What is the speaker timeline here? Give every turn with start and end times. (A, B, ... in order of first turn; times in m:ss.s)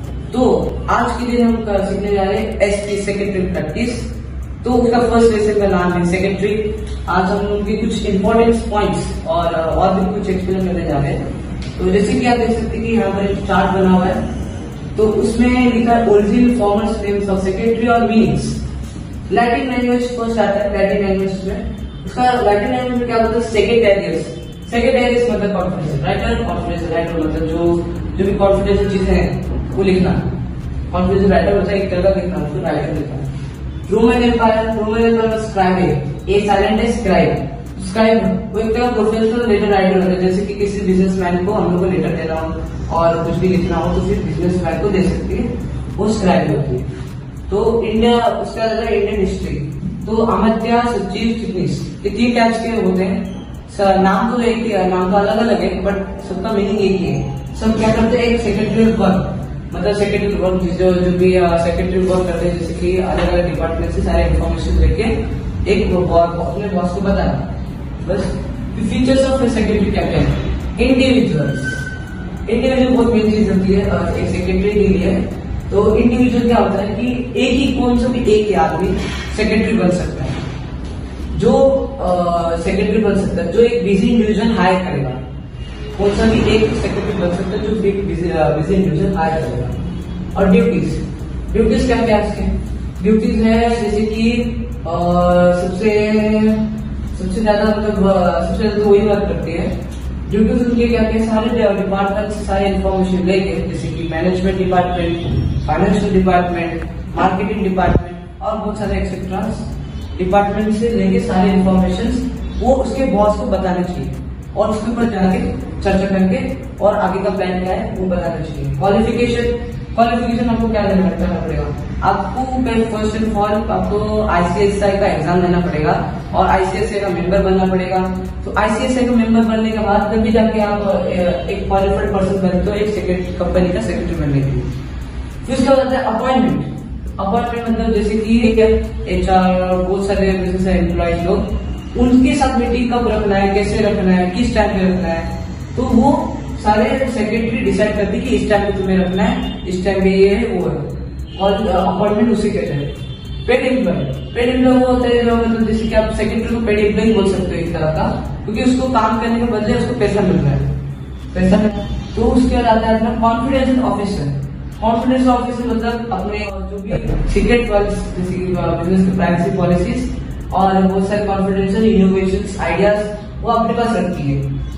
0:00.3-0:04.1 A
0:04.6-0:11.2 A
0:11.8-0:14.2 A
0:14.9-0:18.6 A
0:19.3-0:30.2 A
0:30.9-0:33.3 A
0:33.9-0:46.9 A
0:47.5-1:11.8 A
1:12.4-1:20.4 A
1:21.3-1:25.2 A
1:25.9-1:29.8 A
1:30.3-1:39.7 A
1:40.2-2:14.7 A
2:15.4-2:32.9 A
2:33.4-2:40.7 A
2:41.3-2:54.4 A